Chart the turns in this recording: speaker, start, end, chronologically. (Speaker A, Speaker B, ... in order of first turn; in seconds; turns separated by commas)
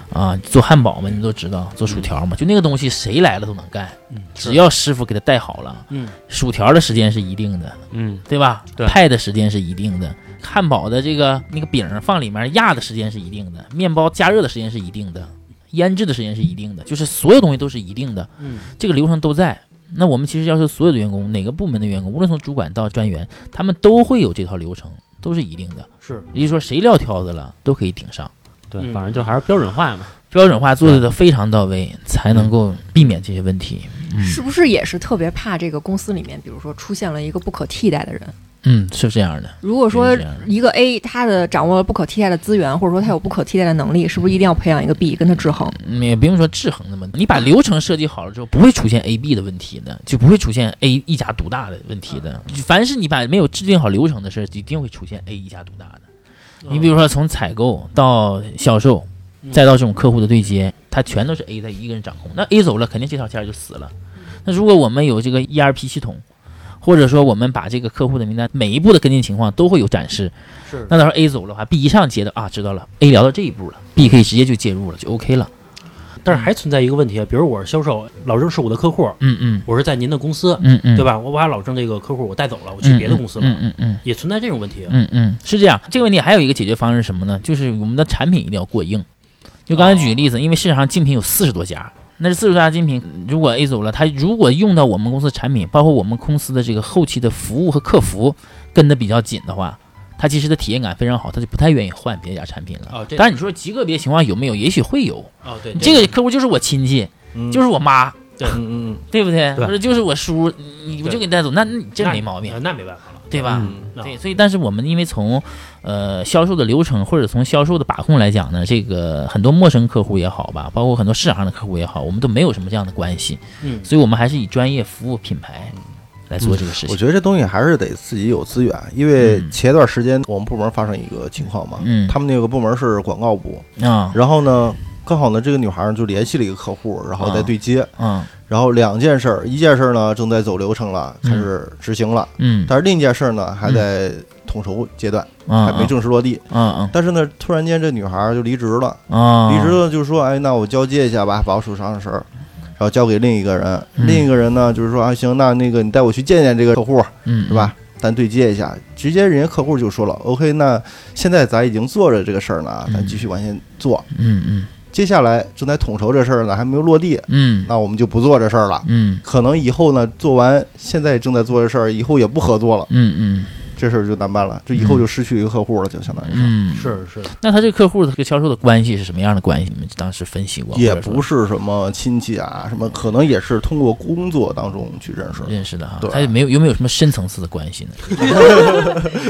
Speaker A: 0.1-28.3, Speaker B: 4.1-4.6, Speaker B: 5.9-6.2, Speaker C: 7.9-8.2, Speaker B: 18.4-18.7, Speaker C: 28.7-30.1, Speaker B: 28.8-29.3, Speaker A: 30.3-34.4, Speaker D: 34.2-38.3, Speaker A: 38.6-40.5, Speaker D: 39.6-45.7, Speaker A: 45.7-56.0, Speaker B: 56.6-56.9, Speaker A: 56.7-63.9, Speaker A: 64.4-66.2, Speaker A: 66.8-70.3, Speaker B: 70.7-70.9, Speaker A: 70.9-75.5, Speaker B: 76.2-84.9, Speaker A: 79.2-79.7, Speaker A: 80.6-81.1, Speaker A: 82.8-84.0, Speaker A: 84.9-89.1, Speaker A: 89.7-108.3, Speaker B: 89.7-90.1, Speaker B: 102.9-103.3, Speaker B: 105.4-106.1, Speaker E: 107.3-107.6, Speaker E: 108.5-109.0, Speaker A: 109.1-112.6, Speaker B: 112.0-114.2, Speaker A: 113.3-125.7, Speaker C: 113.5-113.8, Speaker E: 113.5-113.9, Speaker B: 123.6-123.9, Speaker A: 126.3-127.0, Speaker E: 126.8-137.9, Speaker A: 129.2-129.5, Speaker A: 131.8-132.2, Speaker A: 133.8-134.2, Speaker A: 137.2-138.3, Speaker E: 138.5-152.2, Speaker A: 141.2-141.5, Speaker A: 142.4-142.7, Speaker A: 145.5-145.9, Speaker A: 146.5-146.9, Speaker A: 149.1-149.8, Speaker E: 152.8-164.1, Speaker A: 154.0-154.3, Speaker A: 157.2-157.7, Speaker A: 162.9-163.2, Speaker A: 164.1-164.7, Speaker E: 164.9-172.9, Speaker A: 167.3-167.7, Speaker A: 168.8-169.2, Speaker A: 172.9-173.6, Speaker E: 173.8-176.5, Speaker A: 174.7-175.0, Speaker A: 176.3-181.2, Speaker B: 176.7-177.3, Speaker E: 180.7-186.3, Speaker A: 185.4-188.9, Speaker E: 188.3-189.0, Speaker D: 188.5-188.9